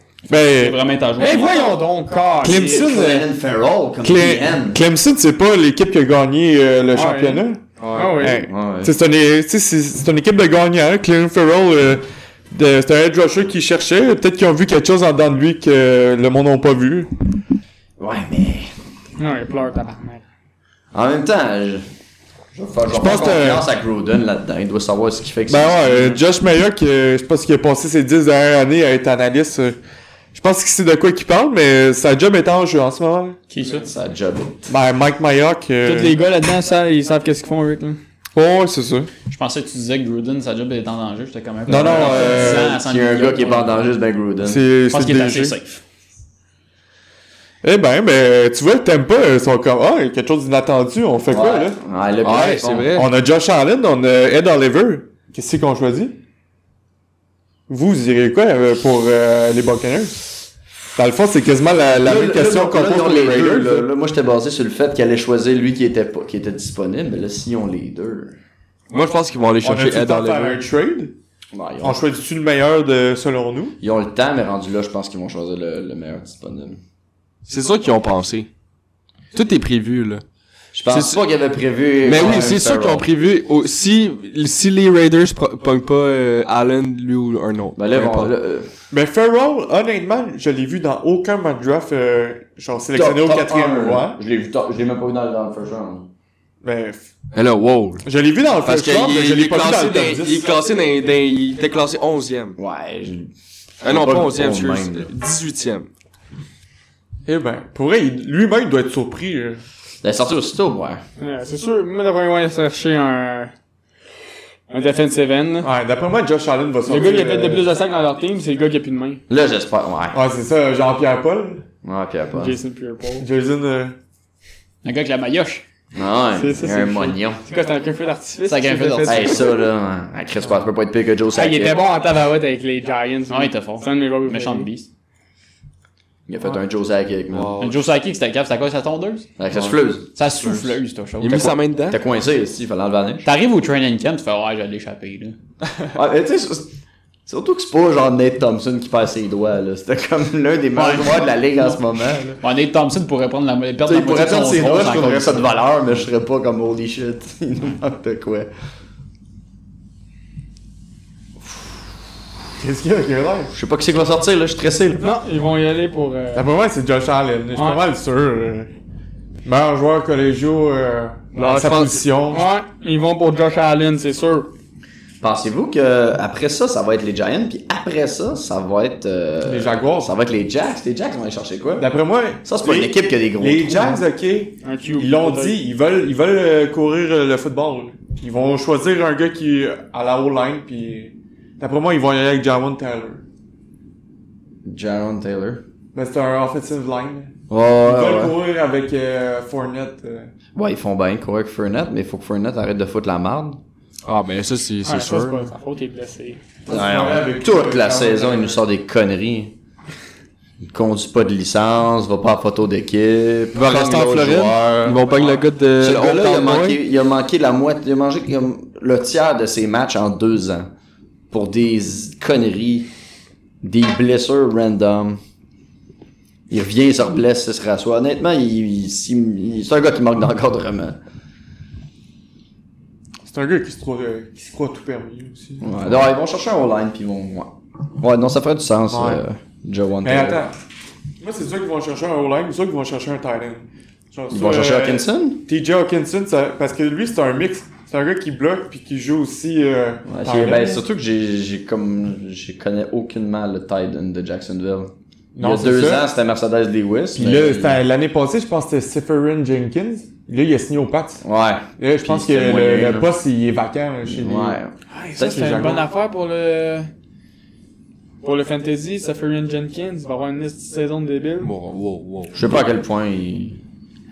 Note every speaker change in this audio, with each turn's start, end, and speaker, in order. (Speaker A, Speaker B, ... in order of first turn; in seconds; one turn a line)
Speaker A: 0.3-0.8
Speaker B: 0.3-1.8
Speaker C: 1.2-2.9
Speaker A: 2.4-3.3
Speaker D: 2.5-4.8
Speaker A: 4.0-7.6
Speaker C: 6.9-8.4
Speaker E: 7.8-8.2
Speaker A: 8.2-17.1
Speaker D: 8.4-8.9
Speaker D: 18.0-18.7
Speaker C: 19.2-20.2
Speaker D: 20.9-21.9
Speaker D: 22.5-26.1
Speaker A: 22.9-23.7
Speaker A: 25.5-29.8
Speaker A: 30.3-33.4
Speaker B: 33.5-33.9
Speaker D: 33.6-34.7
Speaker A: 34.7-36.2
Speaker C: 35.8-38.0
Speaker A: 38.4-39.1
Speaker B: 39.3-43.9
Speaker A: 41.7-42.8
Speaker D: 41.7-44.6
Speaker A: 44.5-45.6
Speaker B: 44.9-45.8
Speaker A: 47.6-51.8
Speaker D: 51.3-52.9
Speaker E: 52.2-53.1
Speaker A: 52.9-56.1
Speaker A: 57.7-60.4
Speaker A: 61.0-63.9
Speaker D: 62.0-68.4
Speaker E: 68.9-70.6
Speaker A: 69.6-71.2
Speaker D: 71.5-72.0
Speaker A: 71.8-73.8
Speaker D: 73.8-76.8
Speaker E: 77.5-78.5
Speaker E: 79.3-80.2
Speaker D: 80.7-83.1
Speaker E: 80.9-81.2
Speaker E: 82.0-88.3
Speaker A: 82.1-82.5
Speaker D: 87.8-88.7
Speaker A: 88.9-94.2
Speaker D: 92.9-96.1
Speaker A: 96.6-97.1
Speaker E: 97.3-98.0
Speaker A: 98.0-100.5
Speaker E: 98.6-102.6
Speaker D: 102.6-103.3
Speaker D: 103.8-105.1
Speaker E: 103.8-105.9
Speaker A: 107.3-109.6
Speaker D: 110.0-111.0
Speaker C: 111.2-113.5
Speaker C: 114.7-115.7
Speaker A: 115.6-117.7
Speaker C: 116.9-119.2
Speaker D: 119.3-120.2
Speaker A: 120.1-121.6
Speaker D: 121.8-122.6
Speaker C: 122.3-123.3
Speaker A: 123.2-124.0
Speaker B: 124.8-125.6
Speaker D: 125.9-127.4
Speaker C: 126.3-129.6
Speaker B: 128.5-129.5
Speaker D: 129.1-131.8
Speaker C: 131.3-134.7
Speaker B: 133.3-134.9
Speaker D: 136.3-137.6
Speaker E: 137.3-137.8
Speaker B: 137.6-139.3
Speaker D: 139.4-140.1
Speaker B: 140.2-141.6
Speaker E: 141.2-142.0
Speaker D: 141.9-143.3
Speaker B: 143.2-145.4
Speaker D: 145.9-146.7
Speaker D: 147.3-152.4
Speaker B: 150.8-151.4
Speaker B: 152.4-155.5
Speaker D: 153.8-158.5
Speaker A: 162.6-163.5
Speaker D: 163.5-165.1
Speaker C: 165.0-166.5
Speaker A: 166.3-168.7
Speaker C: 167.5-167.8
Speaker A: 169.4-172.5
Speaker E: 171.3-172.1
Speaker C: 172.3-174.5
Speaker D: 175.2-181.9
Speaker A: 179.4-180.1
Speaker A: 181.8-193.2
Speaker D: 182.4-184.0
Speaker C: 184.6-185.6
Speaker D: 194.7-195.6
Speaker A: 195.9-200.3
Speaker D: 197.5-198.4
Speaker D: 200.6-203.6
Speaker E: 204.1-205.5
Speaker C: 204.8-206.4
Speaker A: 206.7-208.6
Speaker D: 206.7-209.6
Speaker D: 210.6-215.1
Speaker E: 213.6-216.8
Speaker D: 215.8-220.7
Speaker D: 221.3-222.9
Speaker D: 223.6-225.2
Speaker D: 226.5-231.0
Speaker A: 233.3-235.8
Speaker D: 235.6-240.4
Speaker A: 238.9-239.2
Speaker A: 240.0-240.5
Speaker A: 241.2-250.8
Speaker D: 244.3-245.4
Speaker D: 250.1-257.8
Speaker A: 255.3-256.1
Speaker A: 257.1-261.2
Speaker D: 261.2-263.1
Speaker A: 261.8-264.6
Speaker D: 264.1-265.7
Speaker C: 264.9-266.9
Speaker A: 265.2-265.9
Speaker C: 268.2-271.5
Speaker E: 271.4-272.5
Speaker D: 272.3-273.6